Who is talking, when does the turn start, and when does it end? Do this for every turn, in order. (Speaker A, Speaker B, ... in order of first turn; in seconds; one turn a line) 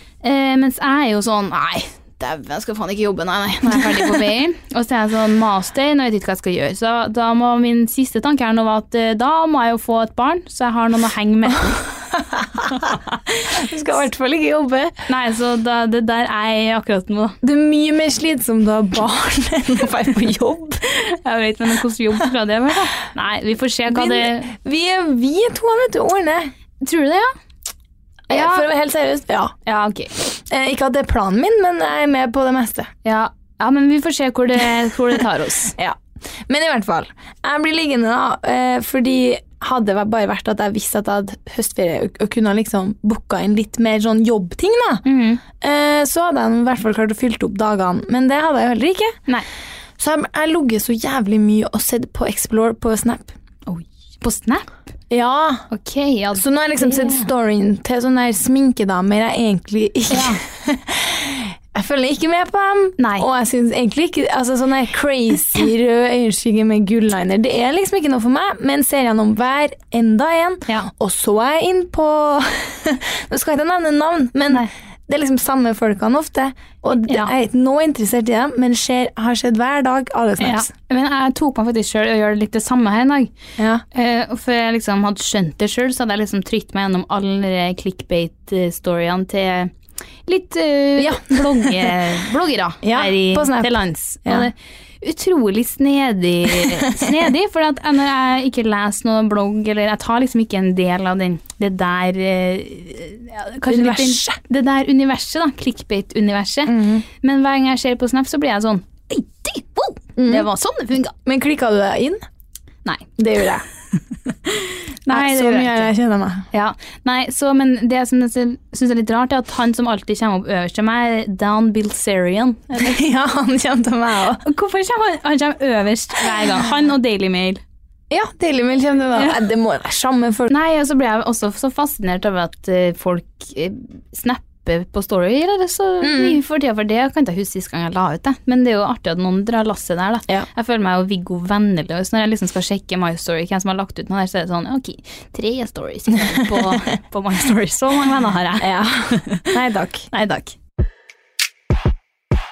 Speaker A: 0.2-11.8
Speaker B: 12.1-15.0
Speaker A: 15.1-17.4
Speaker B: 17.4-20.8
Speaker A: 20.9-24.5
Speaker B: 23.9-26.5
Speaker A: 26.8-27.3
Speaker B: 28.3-29.5
Speaker A: 28.3-28.7
Speaker A: 29.7-30.1
Speaker B: 30.2-32.9
Speaker A: 33.0-35.8
Speaker B: 35.8-49.1
Speaker A: 45.0-45.4
Speaker B: 50.0-53.3
Speaker A: 53.7-54.8
Speaker B: 55.1-55.7
Speaker A: 55.7-57.3
Speaker B: 56.3-80.7
Speaker A: 60.1-60.4
Speaker A: 63.0-63.3
Speaker A: 77.0-77.3
Speaker A: 80.4-83.3
Speaker B: 83.6-83.8
Speaker A: 83.9-89.7
Speaker A: 90.3-111.1
Speaker B: 91.0-91.9
Speaker B: 92.8-94.5
Speaker B: 96.7-96.9
Speaker B: 103.7-104.4
Speaker B: 106.7-107.0
Speaker B: 110.2-110.5
Speaker B: 111.2-112.2
Speaker B: 113.2-113.6
Speaker A: 114.5-115.9
Speaker B: 115.1-116.5
Speaker A: 116.5-123.0
Speaker B: 122.8-124.4
Speaker A: 124.4-127.6
Speaker B: 128.1-130.5
Speaker A: 130.5-149.6
Speaker B: 136.0-136.4
Speaker B: 148.6-150.1
Speaker A: 150.1-150.6